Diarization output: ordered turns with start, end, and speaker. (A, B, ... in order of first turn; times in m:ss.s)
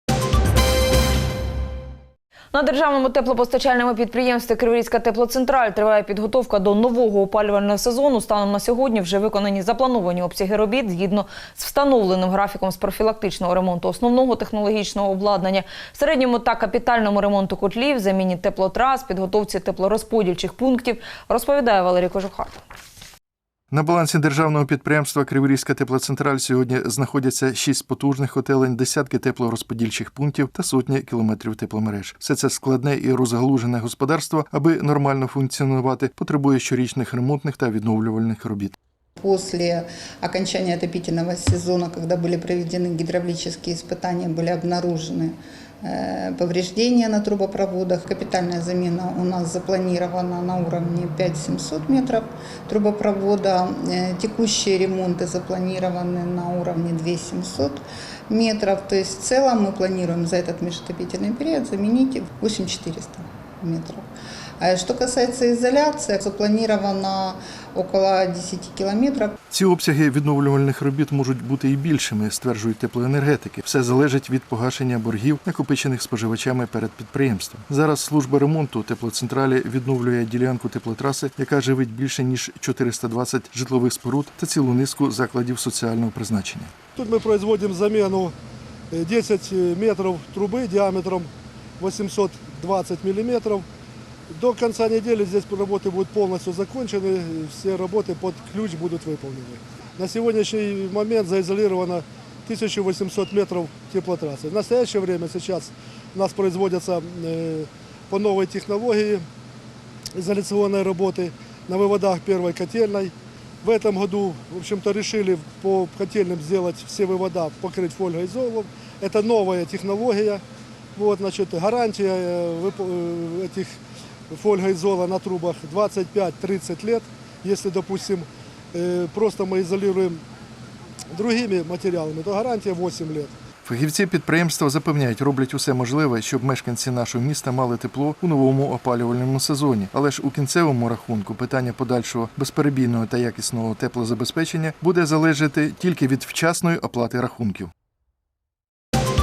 0:02.5-0:22.6 A
0:23.7-0:38.7 B
0:39.2-1:04.0 C
1:04.6-1:09.3 C
1:09.5-1:26.7 B
1:27.0-1:28.3 D
1:28.9-1:33.6 D
1:34.3-1:49.2 D
1:50.2-1:53.1 D
1:53.6-2:00.4 D
2:01.0-2:03.7 D
2:04.3-2:10.2 D
2:11.1-2:13.3 D
2:13.6-2:27.7 B